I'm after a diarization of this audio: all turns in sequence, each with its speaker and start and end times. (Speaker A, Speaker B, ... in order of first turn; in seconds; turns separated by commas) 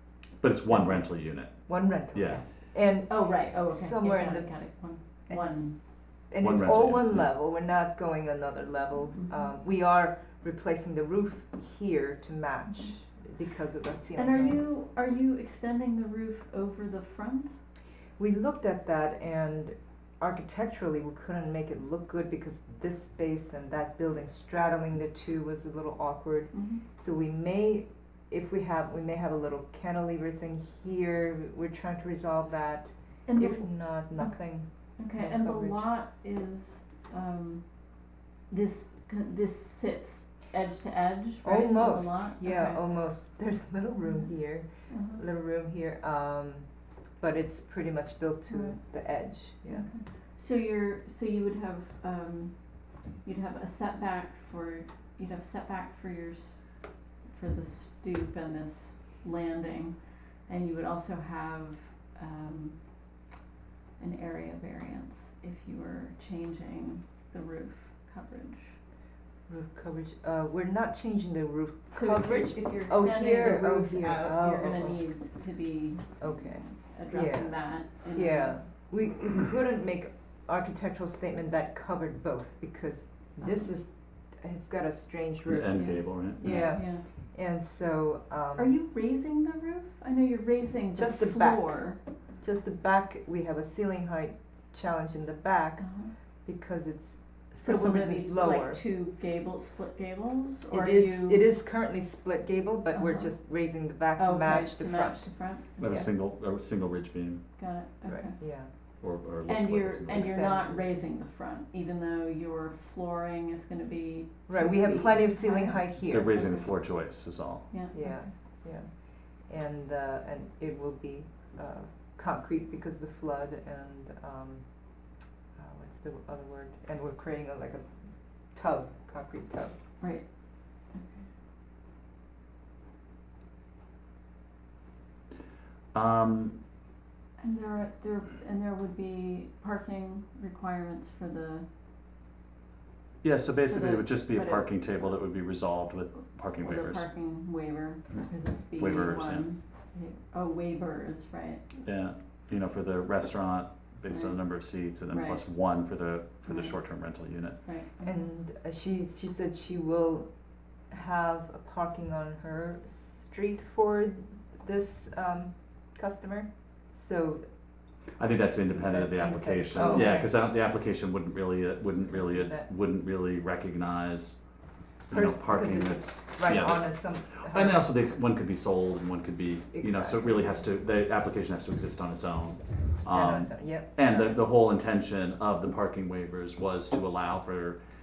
Speaker A: 0.4-2.4, Speaker B: 0.7-4.7, Speaker C: 3.1-5.8, Speaker B: 5.3-5.8, Speaker B: 6.3-14.7, Speaker A: 6.4-7.3, Speaker C: 14.2-17.5, Speaker B: 18.2-35.9, Speaker C: 26.5-26.8, Speaker C: 33.3-34.4, Speaker C: 35.0-42.8, Speaker B: 41.4-46.7, Speaker C: 44.9-45.2, Speaker B: 47.2-49.9, Speaker C: 48.5-48.8, Speaker C: 49.7-52.5, Speaker C: 53.2-56.7, Speaker C: 57.3-62.8, Speaker C: 64.0-68.8, Speaker B: 69.5-75.0, Speaker C: 71.9-78.6, Speaker B: 76.2-88.8, Speaker C: 83.4-83.7, Speaker A: 85.5-86.7, Speaker C: 85.8-87.0, Speaker C: 88.6-92.0, Speaker B: 91.0-91.8, Speaker B: 92.4-95.8, Speaker C: 95.8-96.1, Speaker B: 96.5-98.8, Speaker C: 97.6-101.5, Speaker B: 100.7-106.1, Speaker C: 102.9-103.4, Speaker C: 104.2-105.7, Speaker A: 105.8-107.4, Speaker C: 107.6-108.4, Speaker B: 108.1-108.7, Speaker A: 109.0-110.3, Speaker C: 109.5-116.7, Speaker B: 110.2-110.8, Speaker B: 114.5-116.4, Speaker A: 116.1-117.7, Speaker C: 117.7-118.3, Speaker B: 117.9-129.7, Speaker C: 130.0-131.3, Speaker A: 135.9-136.6, Speaker C: 137.4-141.7, Speaker A: 143.2-147.0, Speaker C: 143.7-145.2, Speaker C: 146.6-151.6, Speaker A: 148.8-149.5, Speaker A: 151.8-157.6, Speaker C: 154.1-155.5, Speaker C: 156.5-156.8, Speaker C: 157.6-158.2, Speaker B: 158.0-167.4, Speaker A: 168.2-174.4, Speaker B: 168.8-170.3, Speaker C: 169.8-170.2, Speaker B: 172.1-172.7, Speaker A: 175.1-187.8, Speaker B: 175.1-177.9, Speaker B: 179.7-180.4, Speaker B: 183.0-184.4